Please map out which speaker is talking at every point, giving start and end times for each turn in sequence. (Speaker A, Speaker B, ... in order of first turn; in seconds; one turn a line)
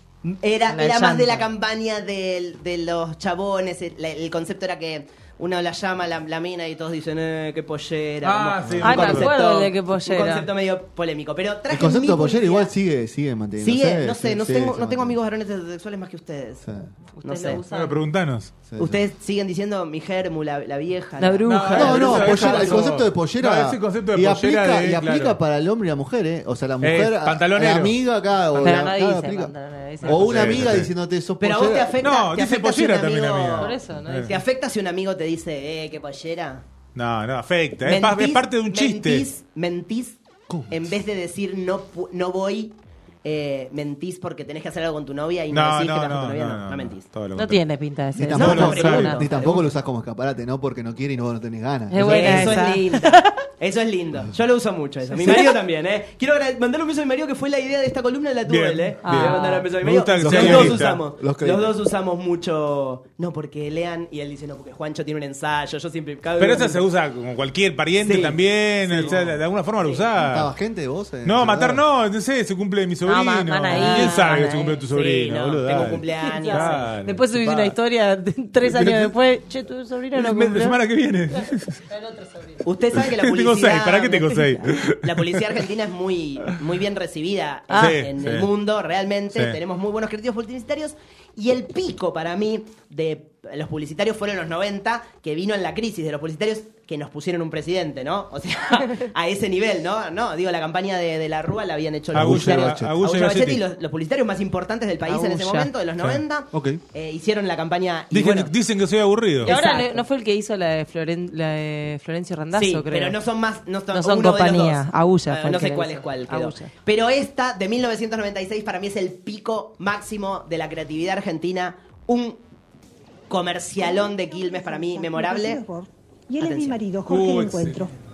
Speaker A: 0.2-12.7
Speaker B: 0.7-1.5
Speaker C: 8.2-9.3
Speaker B: 8.8-10.5
Speaker D: 11.7-15.2
Speaker A: 13.6-16.6
Speaker D: 16.6-16.9
Speaker B: 17.2-18.0
Speaker A: 17.2-17.6
Speaker C: 17.7-18.5
Speaker D: 18.7-19.1
Speaker A: 18.8-22.9
Speaker B: 21.2-22.8
Speaker C: 21.5-25.4
Speaker D: 21.8-32.0
Speaker C: 26.8-28.0
Speaker B: 28.6-30.6
Speaker C: 30.0-30.9
Speaker A: 31.4-33.8
Speaker C: 32.0-34.3
Speaker B: 33.6-34.4
Speaker A: 34.3-36.6
Speaker C: 37.0-39.3
Speaker A: 37.8-47.0
Speaker D: 40.5-40.9
Speaker C: 45.5-47.6
Speaker B: 47.4-49.2
Speaker D: 48.2-52.6
Speaker A: 48.4-49.7
Speaker C: 48.4-49.4
Speaker B: 51.9-53.4
Speaker A: 52.0-66.8
Speaker B: 55.2-55.6
Speaker C: 58.5-61.0
Speaker B: 59.0-59.7
Speaker D: 60.2-61.8
Speaker C: 66.4-70.5
Speaker A: 68.0-68.4
Speaker D: 68.9-69.4
Speaker A: 68.9-69.2
Speaker D: 70.2-71.8
Speaker C: 71.2-77.8
Speaker B: 73.1-74.8
Speaker A: 73.7-76.9
Speaker B: 76.2-80.8
Speaker C: 78.6-79.1
Speaker C: 80.2-81.8
Speaker B: 81.9-82.6
Speaker A: 82.7-108.5
Speaker C: 82.9-85.4
Speaker B: 87.7-88.0
Speaker C: 87.8-88.5
Speaker D: 102.1-103.0
Speaker C: 102.1-103.6
Speaker B: 105.0-105.7
Speaker D: 106.5-106.8
Speaker C: 108.1-109.6
Speaker A: 109.4-110.1
Speaker B: 109.4-113.2
Speaker A: 112.5-122.4
Speaker B: 113.9-116.7
Speaker A: 123.3-125.6
Speaker E: 123.8-127.9
Speaker A: 126.4-126.8
Speaker C: 127.1-127.9